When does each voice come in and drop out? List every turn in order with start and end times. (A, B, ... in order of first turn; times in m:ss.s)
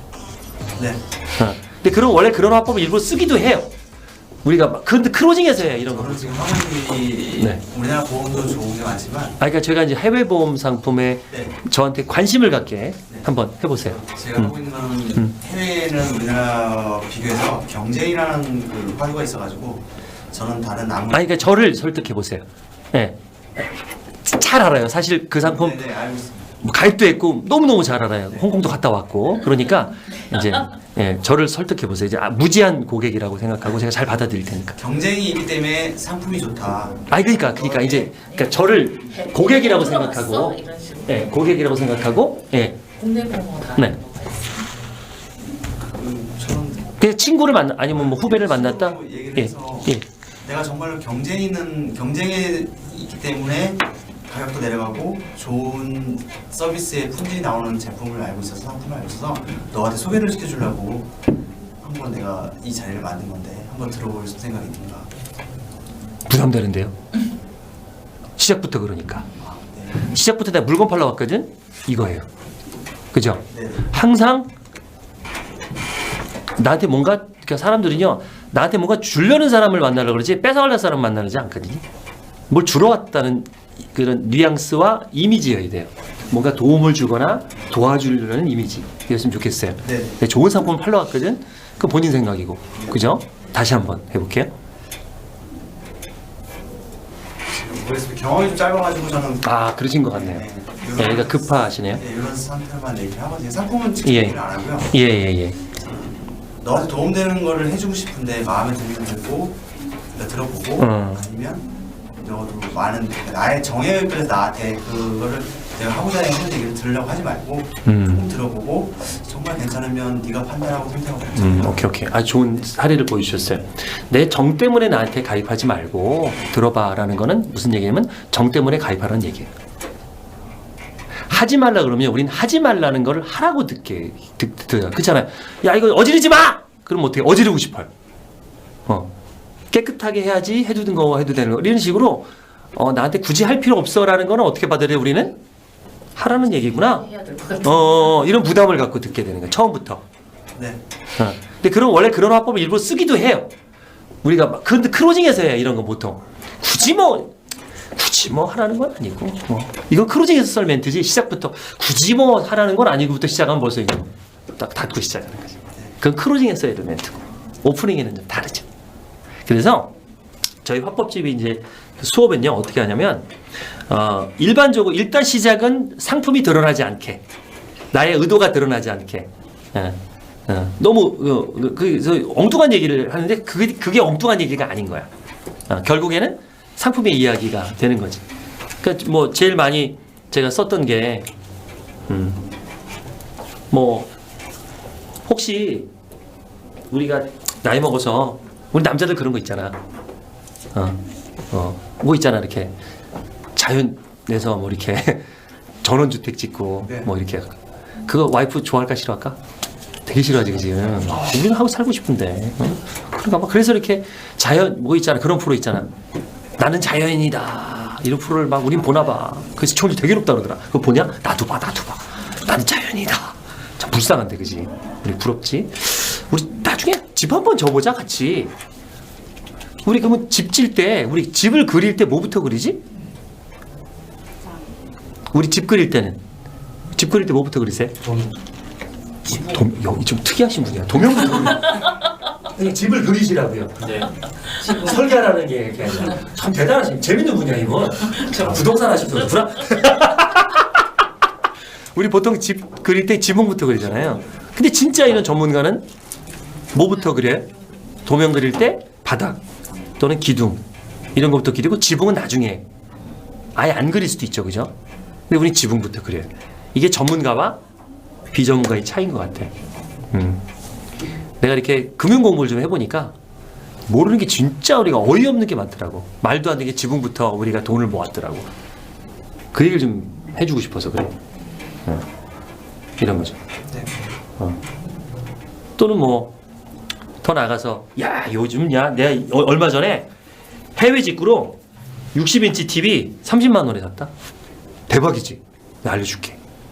0:01.4-0:03.7 A
0:04.4-0:06.4 A
0:05.9-0:09.4 B
0:07.4-0:07.6 A
0:09.4-0:14.5 A
0:13.8-0:21.4 B
0:21.1-0:23.7 A
0:24.2-0:25.8 A
0:25.4-0:26.5 B
0:26.6-0:34.8 A
0:34.8-0:38.1 B
0:37.1-0:42.9 A
0:39.8-0:41.0 C
0:43.0-0:44.5 C
0:43.8-0:44.0 A
0:45.8-0:46.9 B
0:47.0-0:50.0 A
0:48.0-0:49.9 B
0:50.4-1:01.1 B
1:01.8-1:05.1 B
1:06.3-1:07.0 A
1:08.4-1:09.3 A
1:09.4-1:10.1 B
1:10.0-1:12.3 A
1:13.1-1:14.5 A
1:13.5-1:13.8 B
1:16.6-1:21.8 A
1:22.5-1:34.5 A
1:29.8-1:30.2 B
1:37.5-1:39.5 B
1:39.4-1:40.4 A
1:40.1-1:45.0 B
1:41.0-1:42.0 A
1:44.0-1:44.4 A
1:44.9-1:45.6 A
1:45.8-1:46.1 B
1:46.6-1:49.6 B
1:50.1-2:01.9 B
1:50.8-1:51.3 A
1:57.9-1:58.3 A
2:01.4-2:09.5 A
2:11.3-2:17.9 A
2:19.7-2:25.4 A
2:26.2-2:30.0 A
2:27.1-2:27.5 C
2:30.6-2:30.8 B
2:31.2-2:33.5 A
2:34.2-2:37.3 A
2:38.0-2:48.7 A
2:49.5-2:49.9 A
2:50.6-2:53.3 A
2:53.9-2:57.2 A
2:57.9-3:05.1 A
3:05.7-3:08.2 A
3:08.8-3:11.3 A
3:12.1-3:12.4 A
3:13.7-3:14.1 A
3:15.3-3:15.9 A
3:16.9-3:19.8 A
3:20.7-3:21.0 A
3:21.5-3:22.7 A
3:23.6-3:25.3 A
3:25.8-3:29.4 A
3:30.1-3:35.9 A
3:36.6-3:48.5 A
3:49.8-3:52.8 A
3:55.3-3:56.2 A
3:57.0-3:58.3 A
3:59.3-4:10.8 A
4:12.0-4:15.9 A
4:16.7-4:17.5 A
4:18.0-4:19.4 A
4:20.0-4:20.6 A
4:21.2-4:22.6 A
4:23.6-4:24.7 A
4:25.3-4:27.6 A
4:28.3-4:29.5 A
4:30.1-4:30.4 A
4:31.4-4:33.1 A
4:33.9-4:38.5 A
4:39.5-4:41.2 A
4:43.0-4:43.4 A
4:45.8-4:46.4 A
4:47.2-4:50.1 A
4:50.8-4:51.6 A
4:52.1-4:54.1 A
4:54.9-4:56.4 A